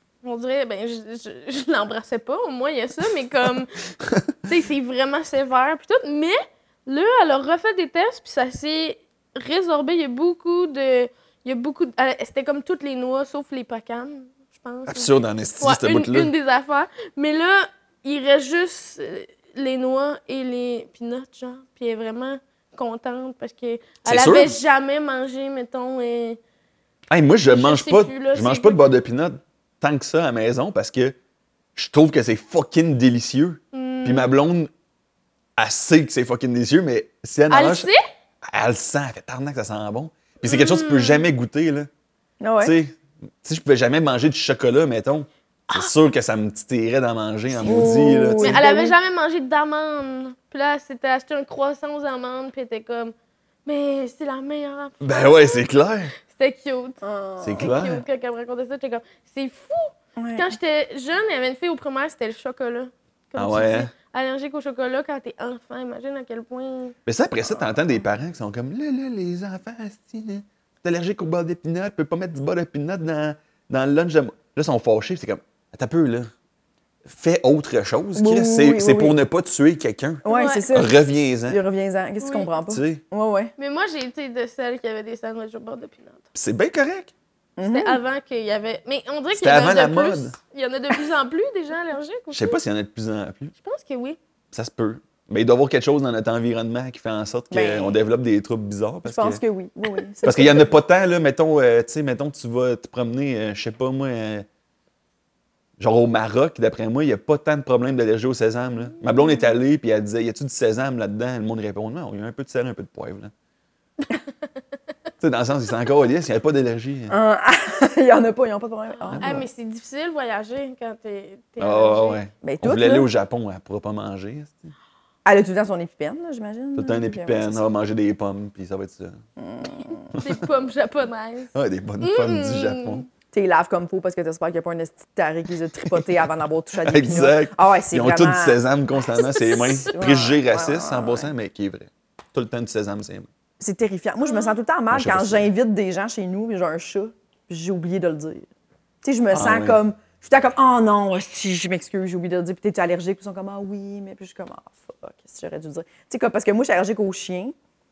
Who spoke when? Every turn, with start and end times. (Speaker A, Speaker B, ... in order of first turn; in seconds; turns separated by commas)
Speaker A: 0.2-3.7, Speaker A: 4.4-26.4, Speaker B: 14.9-16.3, Speaker B: 24.0-24.6, Speaker B: 27.1-31.1, Speaker A: 27.5-28.9, Speaker B: 31.7-34.7, Speaker A: 33.7-34.3, Speaker B: 35.6-37.9, Speaker A: 37.5-38.0, Speaker B: 38.4-41.9, Speaker A: 40.4-41.3, Speaker C: 42.4-42.7, Speaker B: 42.6-48.6, Speaker A: 47.5-53.1, Speaker C: 47.6-48.9, Speaker A: 53.6-55.7, Speaker B: 55.0-56.1, Speaker A: 56.2-57.0, Speaker C: 57.0-57.7, Speaker B: 57.4-58.0, Speaker A: 57.6-66.9, Speaker C: 60.2-60.5, Speaker B: 63.4-63.9, Speaker B: 67.0-76.3, Speaker C: 67.5-67.9, Speaker B: 77.0-81.6, Speaker C: 78.1-79.2, Speaker C: 80.2-83.5, Speaker A: 80.3-80.7, Speaker A: 82.2-82.5, Speaker B: 82.6-83.0, Speaker A: 83.6-86.2, Speaker B: 86.3-87.1, Speaker C: 87.6-88.0, Speaker A: 87.6-92.6, Speaker B: 89.3-90.3, Speaker B: 92.3-93.5, Speaker A: 93.6-94.2, Speaker B: 94.5-99.4, Speaker C: 97.5-98.0, Speaker C: 99.0-100.8, Speaker B: 100.2-104.5, Speaker B: 105.8-113.3, Speaker B: 115.2-117.1, Speaker C: 117.1-119.5, Speaker A: 119.2-122.2, Speaker B: 121.6-124.7, Speaker C: 122.4-123.1, Speaker C: 125.2-127.6, Speaker B: 126.7-129.2, Speaker C: 129.4-130.1, Speaker A: 130.2-133.0, Speaker B: 131.5-133.1, Speaker C: 133.3-138.6, Speaker B: 136.8-143.3, Speaker A: 139.1-139.9, Speaker C: 139.2-141.3, Speaker C: 143.6-148.5, Speaker A: 144.2-144.5, Speaker B: 144.9-145.5, Speaker C: 149.0-157.5, Speaker B: 149.3-149.8